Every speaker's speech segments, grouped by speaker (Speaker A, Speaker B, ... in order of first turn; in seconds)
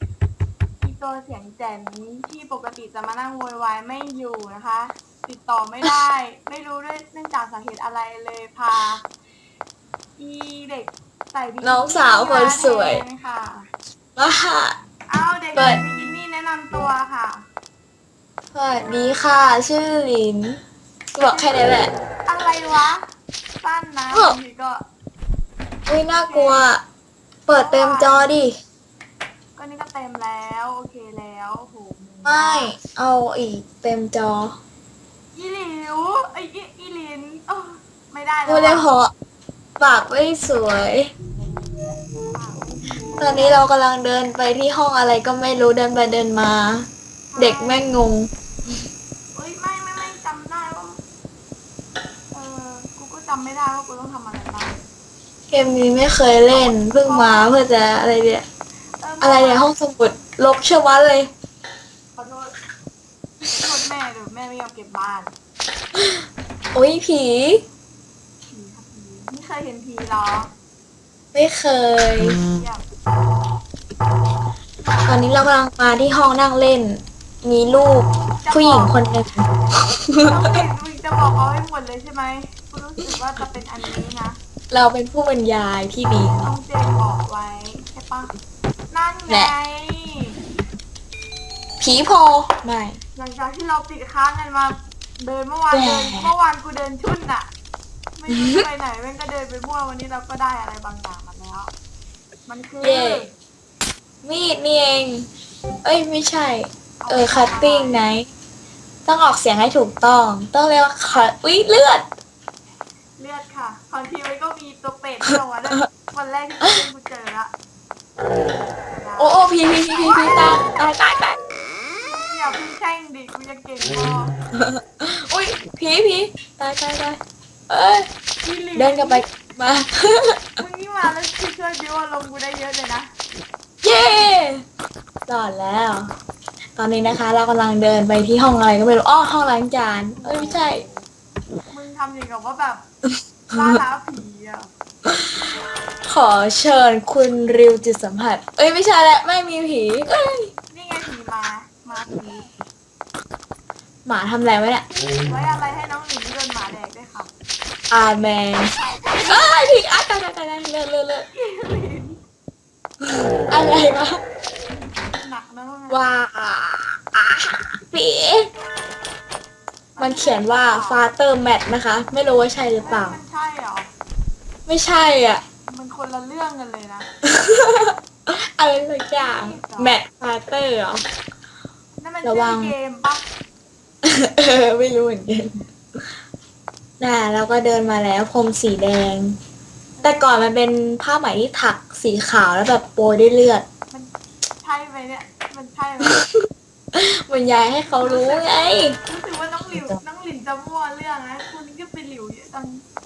Speaker A: 0.8-9.0, 10.2-13.7, 15.1-17.4, 21.3-21.6, 22.2-23.0, 23.6-24.8, 26.1-26.7, 27.5-28.3, 29.6-32.8, 35.3-38.9, 42.3-43.6, 47.3-47.9, 49.3-51.0, 52.3-54.8, 57.0-57.5, 59.0-59.7, 62.1-62.5, 63.5-65.3, 68.5-70.5, 72.5-72.8, 74.8-75.2, 78.4-79.0, 80.2-84.4, 86.4-88.3, 88.9-90.3, 93.2-97.5, 98.2-101.7, 102.5-103.3, 107.0-108.1, 113.2-117.5, 118.8-119.4, 120.0-120.4, 122.0-124.3, 128.4-129.2, 130.6-133.1, 140.2-141.1, 141.7-142.8, 143.5-144.7, 150.7-152.5, 155.2-157.3, 158.7-159.5, 161.3-162.2, 164.7-166.0, 169.9-171.0, 172.8-173.9, 175.7-177.1, 179.2-180.0, 182.0-183.3, 189.9-190.2, 193.9-196.2, 198.0-202.8
Speaker B: 11.6-13.0, 14.2-14.8, 15.5-15.8, 18.5-20.6, 21.1-21.9, 25.9-26.8, 27.5-28.6, 32.2-34.6, 38.5-39.1, 39.8-41.1, 43.2-48.3, 55.5-58.4, 59.2-61.3, 65.9-66.2, 66.7-67.6, 71.3-72.4, 75.0-80.6, 84.7-86.4, 91.8-93.0, 95.7-96.3, 98.3-98.6, 102.8-103.3, 104.2-105.3, 105.8-108.3, 109.0-112.0, 119.2-121.4, 124.5-128.1, 128.8-130.6, 133.8-134.6, 135.3-136.1, 136.8-140.8, 143.5-143.8, 145.0-145.4, 146.0-150.5, 154.0-154.8, 157.9-161.3, 163.0-164.2, 165.9-168.5, 170.0-173.2, 174.7-175.4, 177.2-181.0, 182.2-182.7, 184.0-186.0, 187.0-189.4, 190.0-193.6, 196.0-199.0